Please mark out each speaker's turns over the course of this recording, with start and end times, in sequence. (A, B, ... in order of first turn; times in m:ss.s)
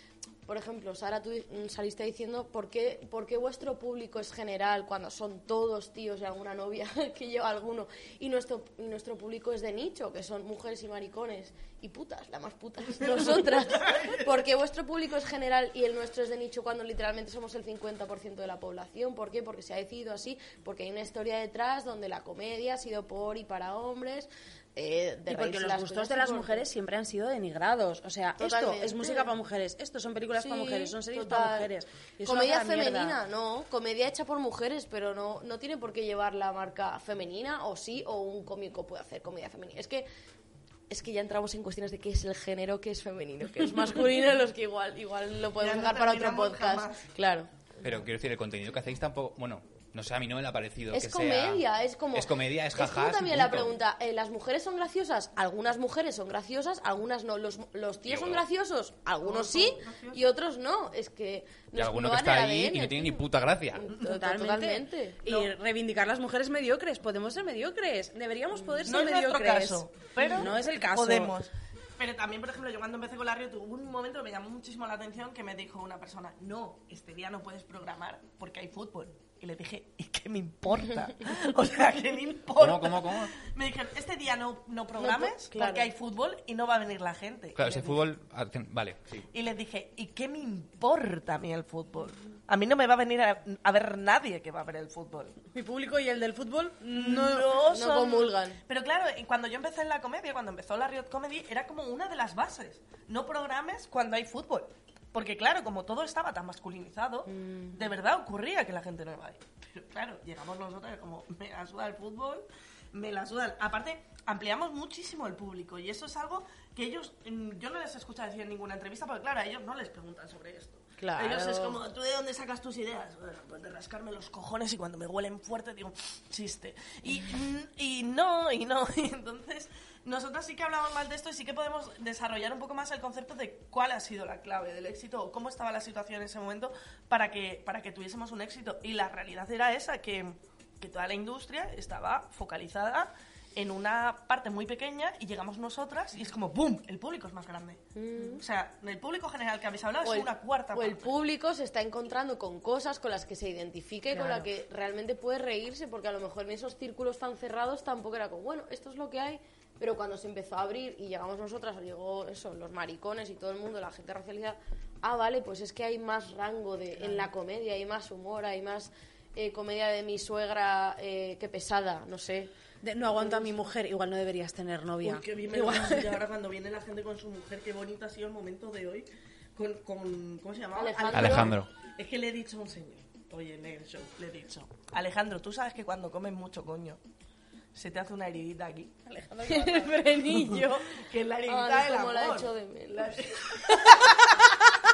0:00.5-0:26.7 A
0:13.0-0:14.3 B
0:25.3-0:33.2 C
0:28.4-0:29.3 A
0:30.4-0:31.7 A
0:32.2-0:40.1 A
0:40.9-0:47.5 A
0:45.6-0:47.1 B
0:47.8-0:53.7 D
0:50.9-1:03.2 A
0:58.1-0:58.4 D
0:59.2-1:00.2 B
1:01.8-1:03.9 D
1:03.7-1:05.2 A
1:04.0-1:11.3 C
1:05.3-1:05.5 B
1:08.8-1:28.0 B
1:22.6-1:23.3 D
1:25.0-1:25.9 A
1:27.6-1:29.3 D
1:29.3-1:35.4 B
1:35.5-1:37.6 C
1:36.9-2:27.8 B
1:37.7-1:38.6 A
1:47.3-1:47.8 A
2:01.0-2:01.8 A
2:28.0-2:28.4 A
2:28.4-2:31.1 B
2:30.0-2:52.5 A
2:34.1-2:34.5 C
2:52.8-2:56.2 C
2:55.0-3:07.0 B
3:00.8-3:01.5 A
3:01.1-3:01.7 D
3:07.8-3:09.0 B
3:09.1-3:10.5 C
3:09.4-3:14.3 A
3:10.9-3:14.5 B